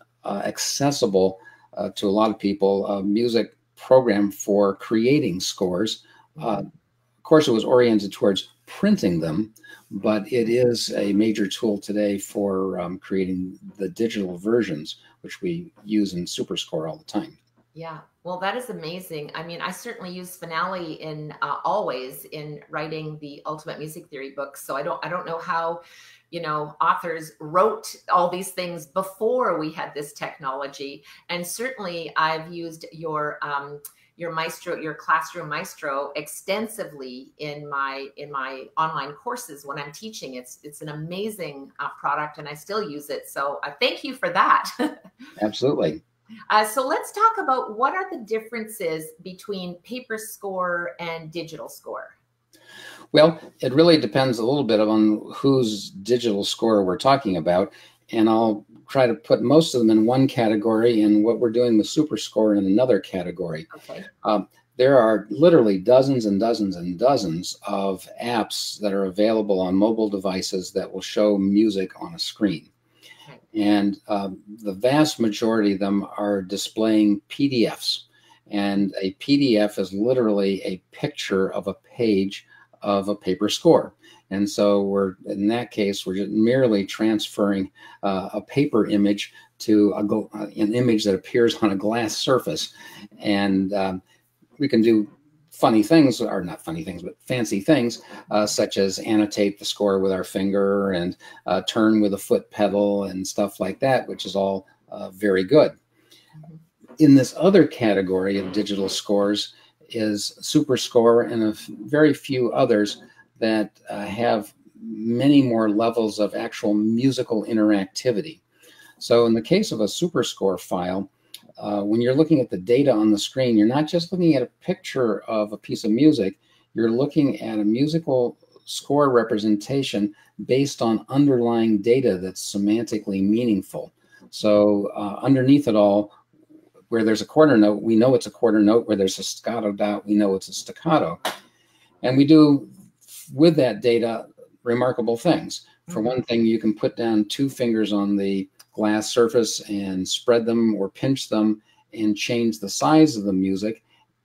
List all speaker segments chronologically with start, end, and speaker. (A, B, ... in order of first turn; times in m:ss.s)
0:00.2-0:06.7 A
0:07.2-0:17.4 A
0:17.7-0:45.0 B
0:45.4-0:46.0 A
0:46.5-0:52.2 B
0:53.1-1:03.7 A
1:03.7-1:04.1 B
1:04.2-1:12.7 A
1:13.5-1:34.0 A
1:34.6-1:45.7 A
1:47.0-1:58.4 A
1:59.0-2:16.2 A
2:16.9-2:21.2 A
2:22.0-2:33.8 A
2:25.9-2:26.2 B